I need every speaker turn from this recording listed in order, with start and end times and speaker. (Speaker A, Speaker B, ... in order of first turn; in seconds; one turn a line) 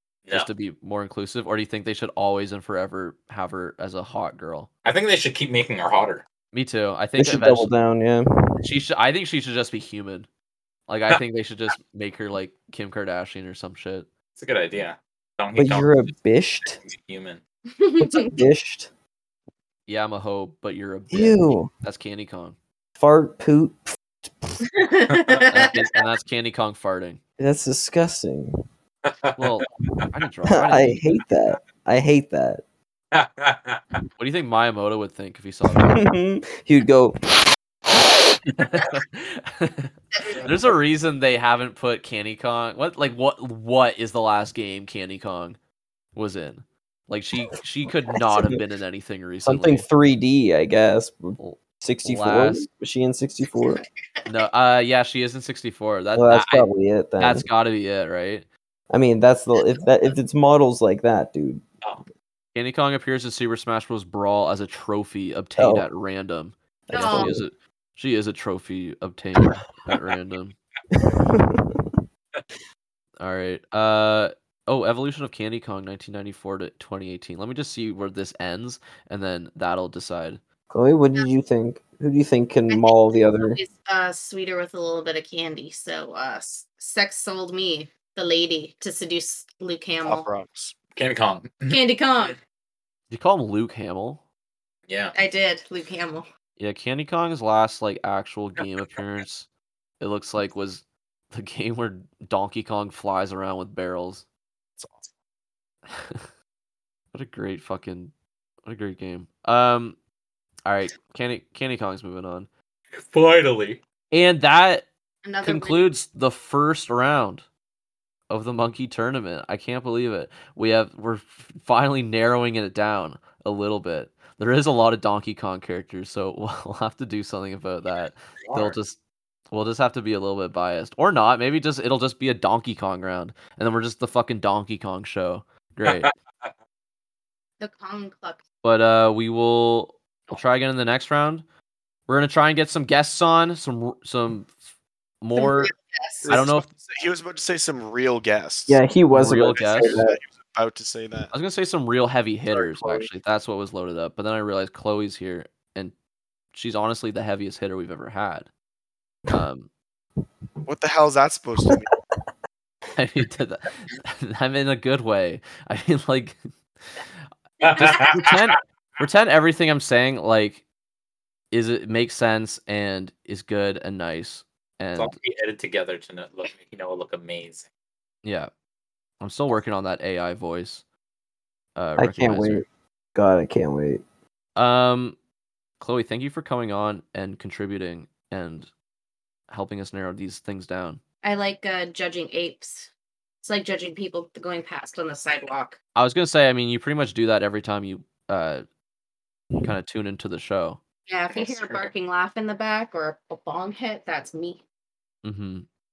Speaker A: 0.3-4.7
Speaker B: 4.8-6.3
Speaker A: 6.5-7.7
Speaker C: 7.2-8.7
Speaker A: 8.6-10.3
Speaker A: 10.9-14.1
Speaker B: 14.4-17.4
Speaker C: 15.6-16.8
Speaker D: 17.8-18.3
Speaker C: 18.0-18.9
Speaker A: 19.9-22.6
Speaker C: 21.1-21.7
Speaker C: 23.0-24.6
Speaker D: 24.6-25.7
Speaker A: 25.5-27.2
Speaker C: 27.4-28.5
Speaker B: 29.1-29.4
Speaker A: 29.4-31.0
Speaker C: 30.5-32.6
Speaker B: 33.1-34.0
Speaker A: 34.2-36.0
Speaker C: 35.9-37.4
Speaker A: 38.6-45.6
Speaker D: 40.1-40.5
Speaker A: 46.1-49.9
Speaker C: 48.3-48.5
Speaker C: 49.5-53.8
Speaker A: 51.4-52.7
Speaker D: 53.5-54.3
Speaker A: 54.3-58.5
Speaker C: 56.1-57.5
Speaker C: 58.9-61.7
Speaker A: 62.5-70.6
Speaker C: 65.6-65.9
Speaker C: 66.9-67.5
Speaker D: 66.9-67.4
Speaker C: 71.0-72.0
Speaker A: 73.2-80.4
Speaker C: 80.7-83.6
Speaker D: 82.7-90.3
Speaker E: 90.0-90.8
Speaker B: 91.0-91.8
Speaker D: 91.7-92.4
Speaker A: 93.1-94.2
Speaker B: 94.9-95.2
Speaker D: 95.2-96.3
Speaker A: 96.6-99.5
Speaker B: 98.6-99.0
Speaker A: 100.0-104.3
Speaker B: 104.8-105.1
Speaker A: 105.9-106.3
Speaker A: 107.1-108.1
Speaker A: 108.7-110.0
Speaker A: 110.7-112.5
Speaker B: 112.9-113.8
Speaker A: 114.1-114.9
Speaker D: 115.2-115.9
Speaker A: 115.4-117.5
Speaker A: 118.3-129.0
Speaker B: 127.9-128.8
Speaker A: 129.5-136.1
Speaker B: 135.8-136.5
Speaker D: 137.6-138.4
Speaker A: 138.6-141.4
Speaker A: 142.1-145.7
Speaker D: 145.4-146.4
Speaker E: 146.2-148.8
Speaker A: 146.3-146.7
Speaker C: 148.7-150.2
Speaker A: 149.1-150.0
Speaker E: 149.3-151.3
Speaker A: 151.3-155.9
Speaker E: 152.5-153.1
Speaker A: 156.5-158.5
Speaker A: 159.3-159.7
Speaker E: 160.7-161.9
Speaker C: 161.7-162.2
Speaker A: 162.9-166.4
Speaker A: 166.9-170.7
Speaker B: 167.6-168.4
Speaker A: 171.5-175.2
Speaker B: 175.0-177.7
Speaker A: 178.2-178.5
Speaker A: 179.2-180.8
Speaker A: 181.8-182.7
Speaker C: 182.0-184.0
Speaker A: 184.6-185.2
Speaker A: 185.8-188.7
Speaker A: 189.5-191.0
Speaker D: 191.2-192.9
Speaker D: 193.4-195.8
Speaker A: 195.9-198.7
Speaker A: 199.6-200.8
Speaker D: 201.1-204.6
Speaker B: 201.3-201.9
Speaker A: 205.2-205.7